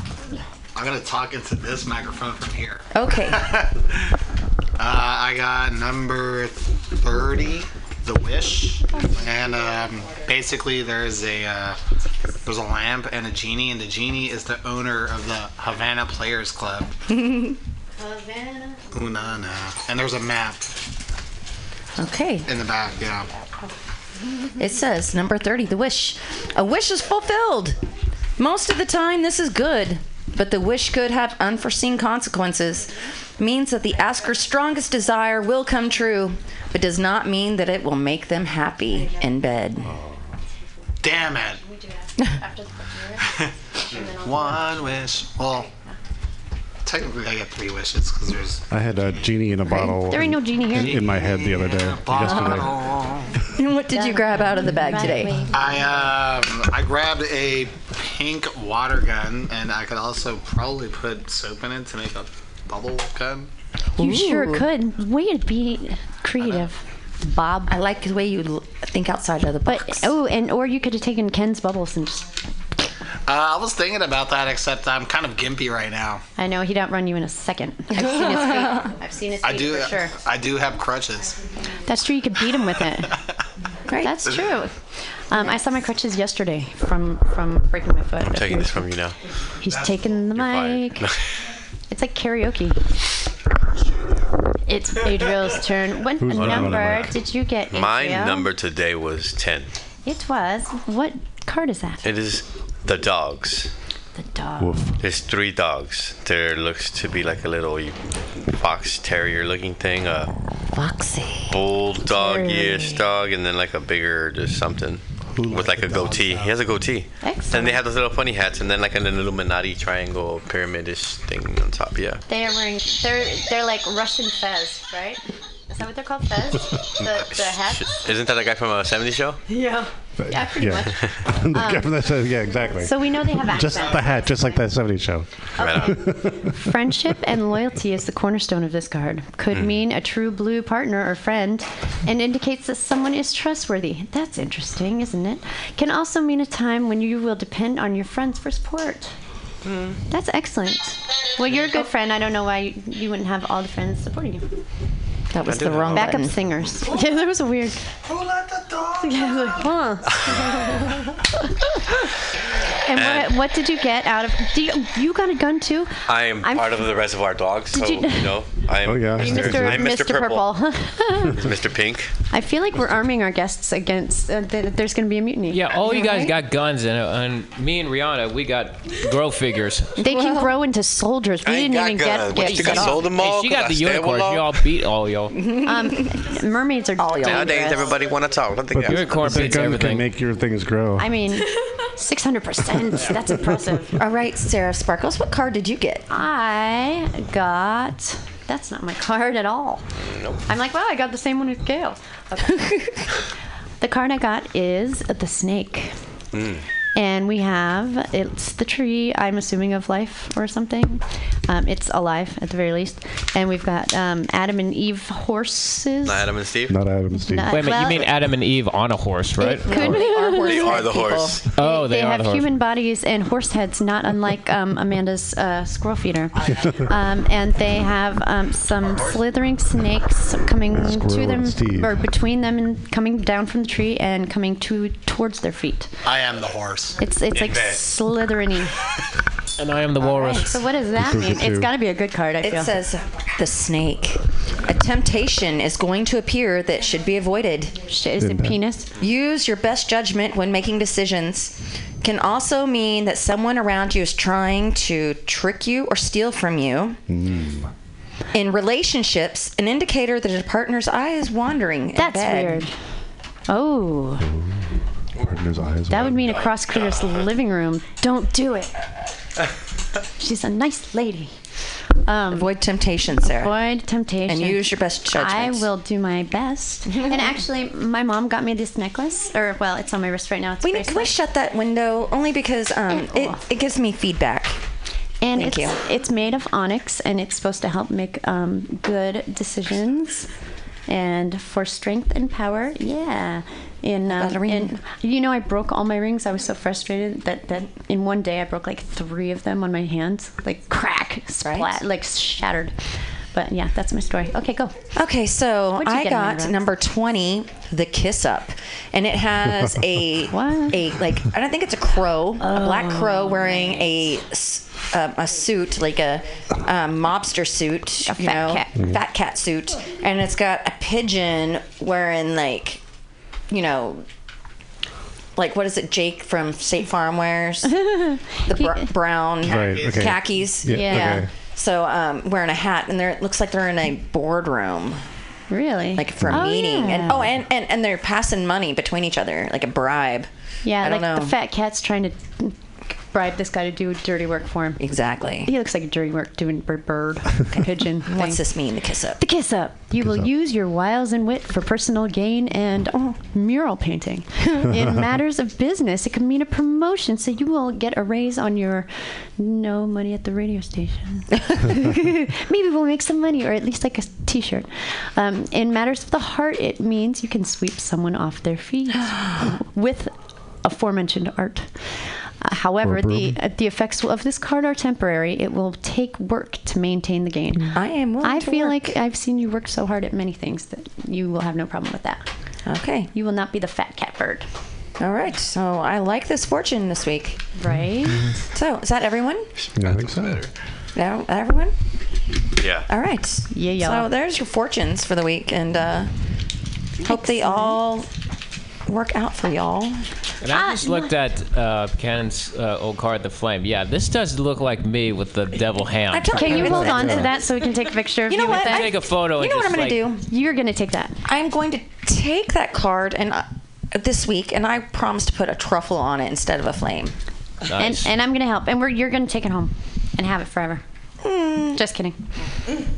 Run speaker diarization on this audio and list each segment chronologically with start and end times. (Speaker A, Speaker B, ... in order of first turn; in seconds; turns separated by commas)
Speaker A: 0.8-3.9, Speaker B: 2.9-3.5, Speaker A: 4.8-11.8, Speaker A: 12.4-16.9, Speaker B: 17.1-17.6, Speaker C: 18.0-18.9, Speaker A: 18.9-20.8, Speaker B: 22.0-22.5, Speaker A: 22.5-23.3, Speaker B: 24.6-27.8, Speaker B: 28.4-39.9, Speaker D: 39.9-40.2, Speaker A: 41.0-41.6, Speaker C: 41.6-44.7, Speaker A: 43.4-45.7, Speaker A: 46.8-48.7, Speaker D: 48.7-52.8, Speaker C: 49.7-51.1, Speaker A: 50.7-53.4, Speaker B: 53.5-55.4, Speaker C: 53.9-55.6, Speaker A: 55.5-63.5, Speaker B: 64.0-64.7, Speaker C: 64.0-67.8, Speaker B: 67.7-70.1, Speaker C: 69.7-72.3, Speaker A: 73.3-76.2, Speaker C: 76.4-80.2, Speaker B: 77.9-78.9, Speaker A: 79.4-81.4, Speaker C: 81.8-83.2, Speaker B: 83.9-84.4, Speaker C: 84.0-84.8, Speaker C: 85.3-88.9, Speaker E: 88.2-89.2, Speaker C: 89.6-91.1, Speaker E: 90.3-91.2, Speaker C: 91.9-92.8, Speaker C: 94.7-98.5, Speaker D: 96.2-97.2, Speaker E: 96.4-97.1, Speaker E: 97.7-99.7, Speaker C: 100.0-102.1, Speaker E: 102.0-103.7, Speaker C: 104.2-104.8, Speaker D: 104.6-105.0, Speaker E: 105.0-108.0, Speaker E: 108.5-110.3, Speaker E: 111.5-122.2, Speaker C: 112.1-112.9, Speaker D: 115.3-116.6, Speaker A: 115.9-116.3, Speaker C: 117.2-117.8, Speaker C: 122.3-128.0, Speaker E: 127.0-129.4, Speaker C: 129.5-132.1, Speaker D: 130.2-136.5, Speaker C: 132.8-134.6, Speaker C: 135.6-149.1, Speaker E: 135.6-136.0, Speaker E: 149.6-150.0, Speaker C: 150.1-154.5, Speaker B: 155.3-156.4, Speaker E: 155.4-156.3, Speaker C: 155.9-157.9, Speaker C: 159.0-160.9, Speaker C: 162.8-166.9, Speaker E: 162.9-163.3, Speaker E: 166.1-170.5, Speaker C: 167.7-168.5, Speaker D: 168.8-169.9, Speaker C: 169.2-171.4, Speaker E: 171.4-172.1, Speaker C: 172.3-176.0, Speaker F: 175.5-180.0, Speaker B: 175.8-176.3, Speaker C: 180.0-183.1, Speaker B: 180.1-180.4, Speaker E: 181.4-184.7, Speaker F: 182.4-185.4, Speaker B: 185.4-186.2, Speaker C: 185.7-187.9, Speaker B: 187.0-187.9, Speaker E: 187.2-189.5, Speaker D: 188.7-191.1, Speaker F: 188.8-190.1, Speaker C: 191.0-194.0, Speaker B: 194.0-196.1, Speaker C: 196.1-199.8, Speaker E: 200.0-200.4, Speaker C: 200.5-202.8, Speaker C: 203.8-205.9, Speaker E: 206.3-206.6, Speaker C: 206.9-216.3, Speaker E: 216.1-216.8, Speaker D: 216.7-217.5, Speaker C: 217.2-218.1, Speaker F: 217.5-220.0, Speaker B: 219.4-221.4, Speaker C: 219.7-220.8, Speaker E: 219.9-221.4, Speaker F: 221.5-222.5, Speaker C: 221.6-235.9, Speaker D: 230.7-232.0, Speaker A: 236.1-237.0, Speaker C: 237.0-238.7, Speaker E: 237.3-237.8, Speaker F: 239.6-240.7, Speaker C: 240.3-242.7, Speaker D: 240.9-241.7, Speaker B: 242.4-247.8, Speaker C: 247.9-248.9, Speaker D: 248.2-248.6, Speaker B: 249.0-257.0, Speaker D: 257.1-257.7, Speaker B: 258.3-262.6, Speaker C: 261.9-262.7, Speaker C: 263.5-264.3, Speaker D: 264.2-264.6, Speaker D: 265.2-266.3, Speaker C: 265.9-268.8, Speaker E: 266.1-267.2, Speaker C: 270.2-271.3, Speaker C: 272.1-272.5, Speaker B: 272.3-273.6, Speaker C: 273.2-281.1, Speaker B: 274.3-275.7, Speaker B: 280.6-284.6, Speaker C: 282.9-283.4, Speaker C: 285.2-290.3, Speaker B: 285.4-285.8, Speaker C: 290.9-302.8, Speaker B: 294.1-294.8, Speaker B: 301.4-301.8, Speaker C: 303.3-304.7, Speaker B: 305.0-322.8, Speaker C: 305.8-306.7, Speaker C: 310.3-310.8, Speaker C: 312.4-314.0, Speaker C: 318.1-318.7, Speaker D: 318.8-319.0, Speaker B: 323.5-324.1, Speaker B: 325.4-327.8, Speaker C: 327.7-328.9, Speaker B: 328.4-335.0, Speaker A: 329.4-330.3, Speaker D: 329.4-331.3, Speaker C: 330.7-331.2, Speaker C: 335.5-337.3, Speaker B: 336.0-341.3, Speaker D: 336.2-336.5, Speaker C: 340.6-344.8, Speaker B: 344.8-345.5, Speaker C: 345.4-348.4, Speaker B: 347.5-349.2, Speaker C: 349.2-371.8, Speaker D: 350.0-350.3, Speaker C: 372.4-382.3, Speaker D: 372.8-373.4, Speaker B: 377.7-378.9, Speaker B: 382.7-383.1, Speaker C: 383.1-384.5, Speaker B: 385.0-387.4, Speaker C: 387.6-388.2, Speaker B: 388.5-389.5, Speaker E: 389.6-390.5, Speaker D: 389.8-390.5, Speaker B: 390.9-391.7, Speaker E: 392.6-392.9, Speaker B: 392.9-396.1, Speaker C: 393.5-394.1, Speaker C: 397.0-397.8, Speaker B: 397.0-398.1, Speaker B: 398.9-400.1, Speaker F: 400.4-407.2, Speaker C: 400.5-401.1, Speaker B: 406.1-407.4, Speaker C: 406.3-408.9, Speaker B: 408.3-410.2, Speaker F: 408.5-410.0, Speaker C: 410.3-411.2, Speaker B: 411.3-417.1, Speaker F: 417.7-418.1, Speaker C: 417.7-420.8, Speaker B: 421.2-421.8, Speaker C: 421.8-422.2